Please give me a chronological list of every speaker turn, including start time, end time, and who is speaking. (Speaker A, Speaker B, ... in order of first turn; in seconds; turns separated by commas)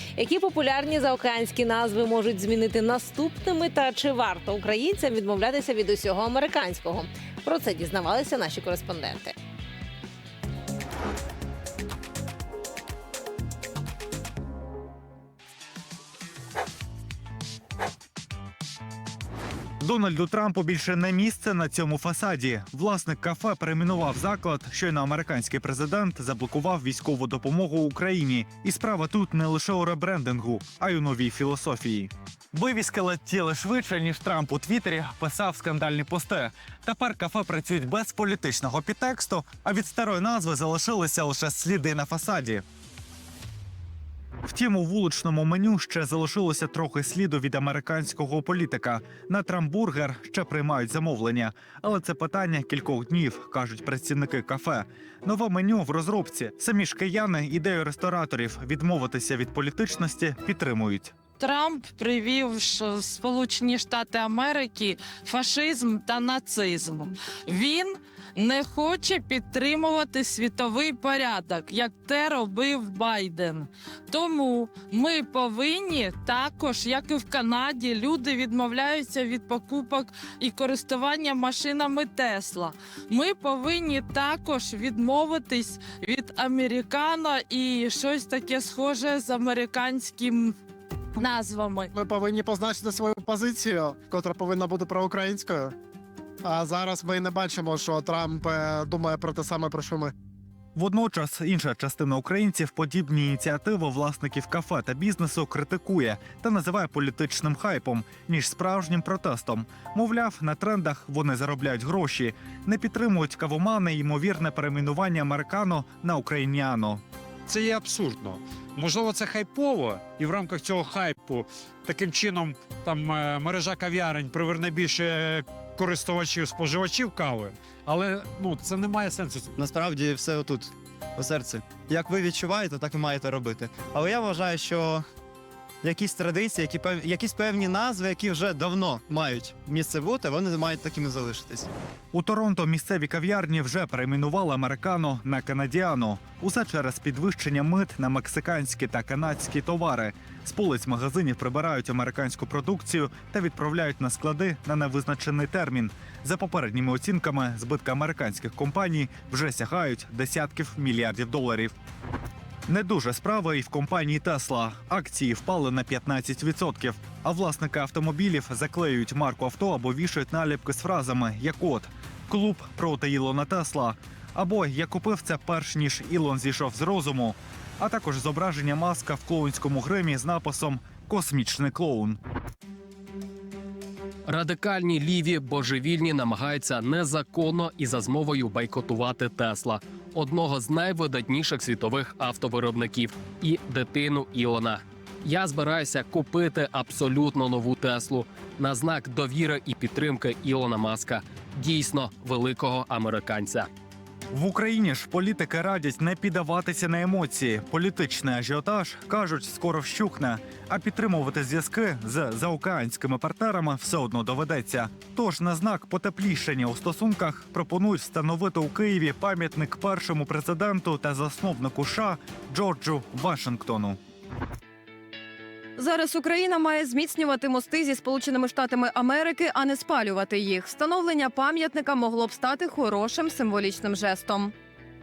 Speaker A: 0.1-9.3, Speaker B: 19.8-42.6, Speaker B: 44.4-61.1, Speaker C: 61.4-90.5, Speaker C: 91.2-91.9, Speaker D: 91.9-95.7, Speaker D: 96.4-100.1, Speaker B: 100.8-117.0, Speaker E: 117.5-129.5, Speaker F: 129.6-135.0, Speaker F: 135.8-141.7, Speaker B: 142.1-161.7, Speaker B: 162.7-182.2, Speaker G: 184.3-203.7, Speaker B: 204.3-224.0, Speaker H: 225.8-234.5